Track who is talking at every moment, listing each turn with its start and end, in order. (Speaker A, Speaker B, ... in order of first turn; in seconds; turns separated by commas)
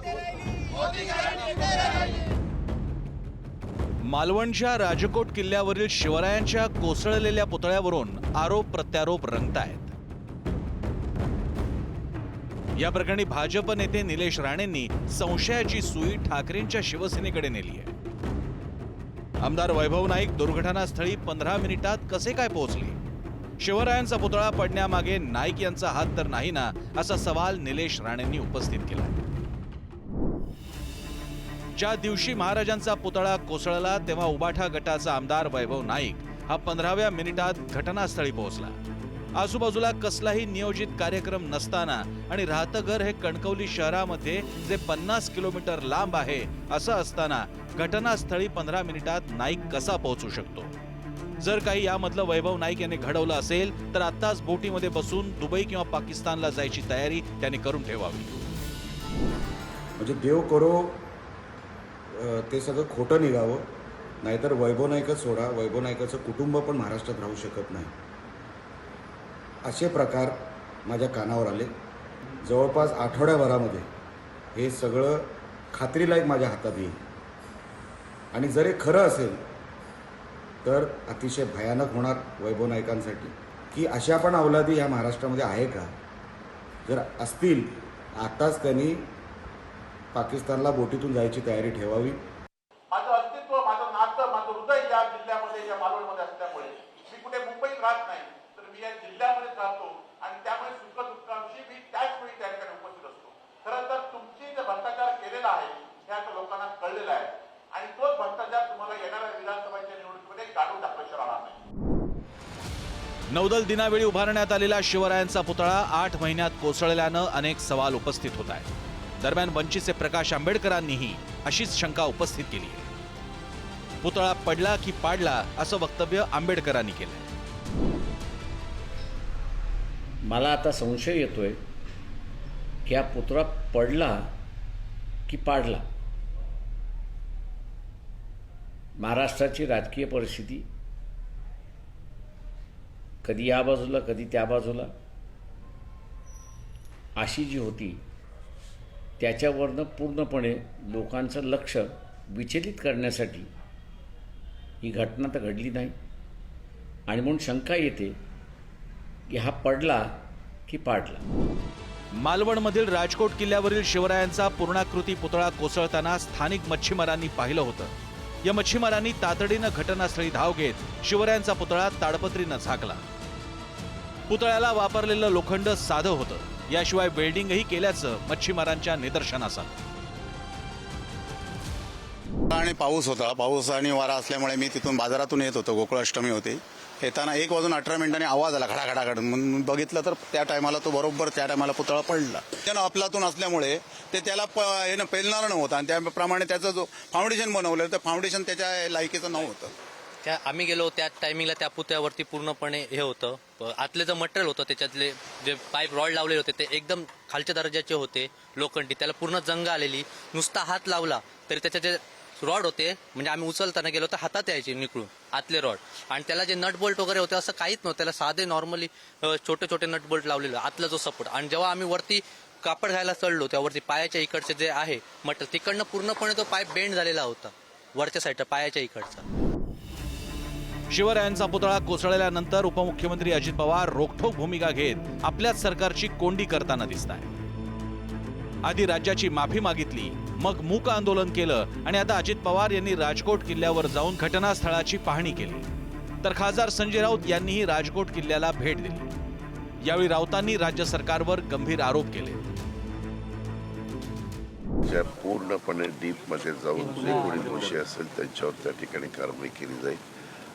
Speaker A: 4.1-9.9, Speaker A: 12.8-17.9, Speaker A: 19.4-23.0, Speaker A: 23.6-29.2, Speaker A: 31.8-38.8, Speaker A: 39.4-50.7, Speaker A: 51.4-58.4, Speaker B: 60.0-61.0, Speaker B: 62.1-63.7, Speaker B: 64.2-67.9, Speaker B: 69.6-71.7, Speaker B: 72.4-73.9, Speaker B: 74.5-77.0, Speaker B: 78.3-79.4, Speaker B: 80.6-85.9, Speaker B: 86.8-89.1, Speaker B: 90.1-92.2, Speaker C: 92.9-111.6, Speaker A: 113.3-118.7, Speaker A: 119.2-122.9, Speaker A: 124.0-127.3, Speaker D: 130.2-131.6, Speaker D: 132.9-134.2, Speaker D: 135.3-135.8, Speaker D: 139.0-140.7, Speaker D: 143.2-144.9, Speaker D: 147.2-148.0, Speaker D: 149.2-153.5, Speaker D: 154.8-156.0, Speaker D: 157.1-158.2, Speaker D: 159.3-160.1, Speaker D: 160.7-161.2, Speaker A: 162.2-167.9, Speaker A: 168.4-173.0, Speaker A: 174.3-179.8, Speaker E: 182.5-199.7, Speaker F: 200.2-229.2, Speaker A: 230.9-237.3, Speaker A: 238.7-245.7, Speaker A: 246.2-249.1, Speaker A: 249.8-252.5, Speaker G: 254.9-260.0